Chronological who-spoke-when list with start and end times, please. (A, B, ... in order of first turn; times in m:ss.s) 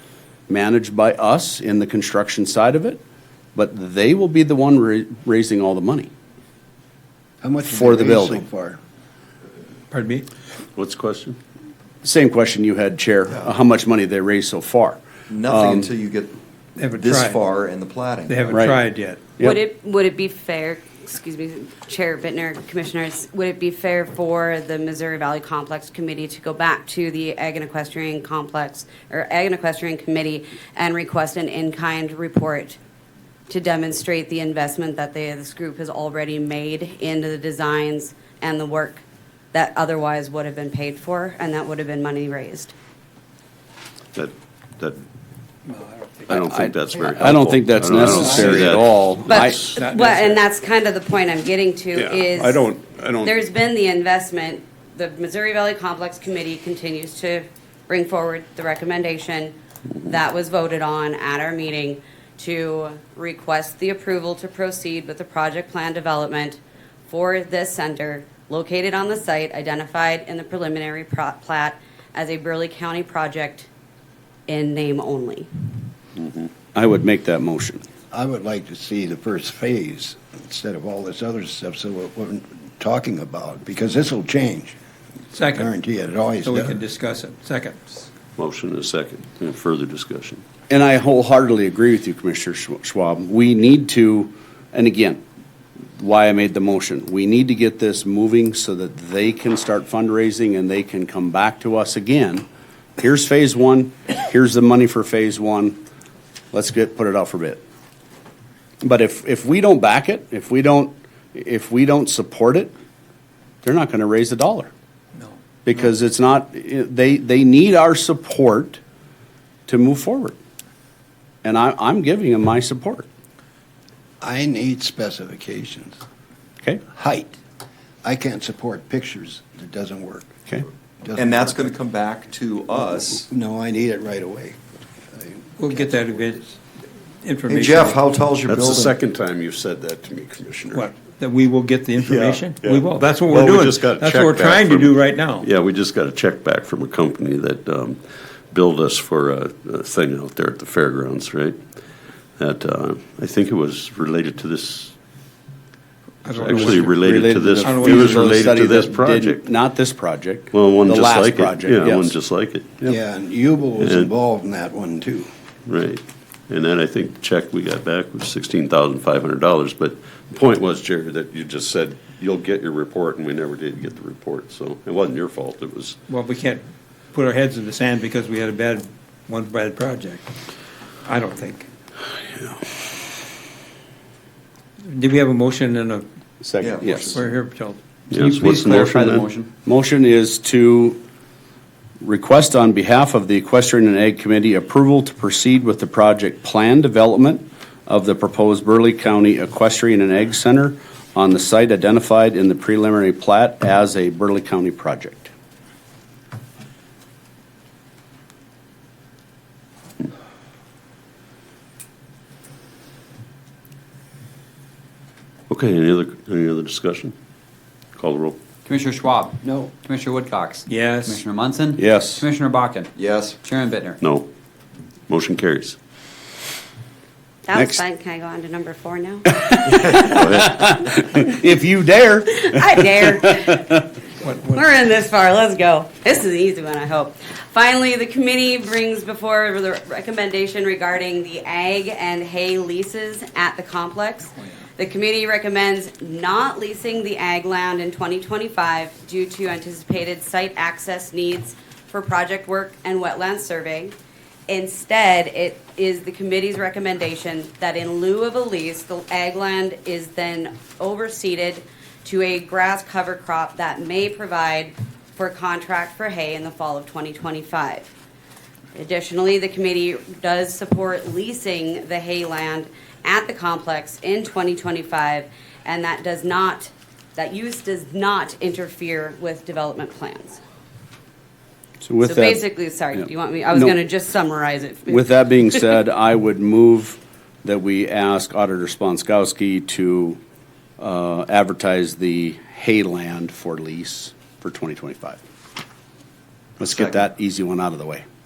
0:00.5-0:03.0 A
0:03.5-0:06.1 A
0:07.4-0:08.8 B
0:07.6-0:08.4 A
0:09.9-0:10.2 C
0:10.7-0:11.4 D
0:12.0-0:15.9 A
0:15.3-0:18.6 E
0:16.8-0:17.4 C
0:18.3-0:19.2 C
0:18.5-0:18.8 A
0:19.4-0:32.8 F
0:33.5-0:42.7 F
0:44.1-0:45.0 D
0:45.7-0:46.4 C
0:46.3-0:49.7 D
0:46.3-0:49.7 A
0:47.9-0:48.7 B
0:49.2-0:59.5 F
0:49.7-0:50.4 C
0:51.9-0:53.4 D
1:00.0-1:13.7 F
1:14.5-1:15.5 F
1:16.7-1:17.8 A
1:18.1-1:24.7 B
1:25.3-1:25.7 C
1:25.5-1:26.8 B
1:26.4-1:28.0 C
1:28.4-1:30.4 D
1:30.7-1:35.2 A
1:36.0-1:42.4 A
1:43.0-1:45.8 A
1:46.5-1:47.6 A
1:48.8-1:52.7 A
1:53.6-1:54.7 A
1:55.6-1:58.8 A
1:59.7-2:00.4 A
2:01.4-2:03.0 A
2:04.2-2:06.0 B
2:06.9-2:07.4 B
2:08.0-2:10.4 B
2:11.0-2:11.7 B
2:11.1-2:13.3 E
2:13.2-2:16.4 B
2:15.6-2:16.4 C
2:17.2-2:18.0 C
2:17.5-2:19.0 E
2:18.4-2:20.9 D
2:20.7-2:25.5 C
2:22.0-2:31.6 D
2:32.4-2:34.9 D
2:36.2-2:37.0 C
2:36.3-2:39.4 D
2:36.5-2:42.1 A
2:37.6-2:38.4 C
2:40.5-2:42.7 D
2:42.8-2:45.3 B
2:43.8-2:44.1 D
2:45.6-2:56.0 D
2:56.1-3:00.3 C
3:01.0-3:01.7 C
3:04.9-3:06.0 C
3:06.4-3:07.2 A
3:06.6-3:07.0 E
3:06.9-3:08.5 C
3:08.1-3:09.3 D
3:08.2-3:09.5 G
3:09.6-3:11.0 A
3:12.0-3:25.3 A
3:35.5-3:37.1 D
3:38.0-3:38.4 D
3:38.6-3:44.0 G
3:39.4-3:39.7 B
3:40.7-3:41.2 C
3:41.8-3:42.2 A
3:43.0-3:43.4 E
3:44.0-3:44.3 D
3:45.1-3:45.8 D
3:47.4-3:50.0 F
3:47.5-3:47.8 A
3:49.5-3:53.5 A
3:50.0-3:50.6 D
3:52.3-3:53.9 F
3:54.2-3:54.6 C
3:54.5-4:13.9 F
4:14.5-4:27.9 F
4:28.7-4:40.4 F
4:41.8-4:42.4 A
4:42.0-4:45.3 F
4:44.9-4:50.2 A
4:50.8-4:55.2 A
4:56.6-4:58.0 A
4:56.6-4:57.0 E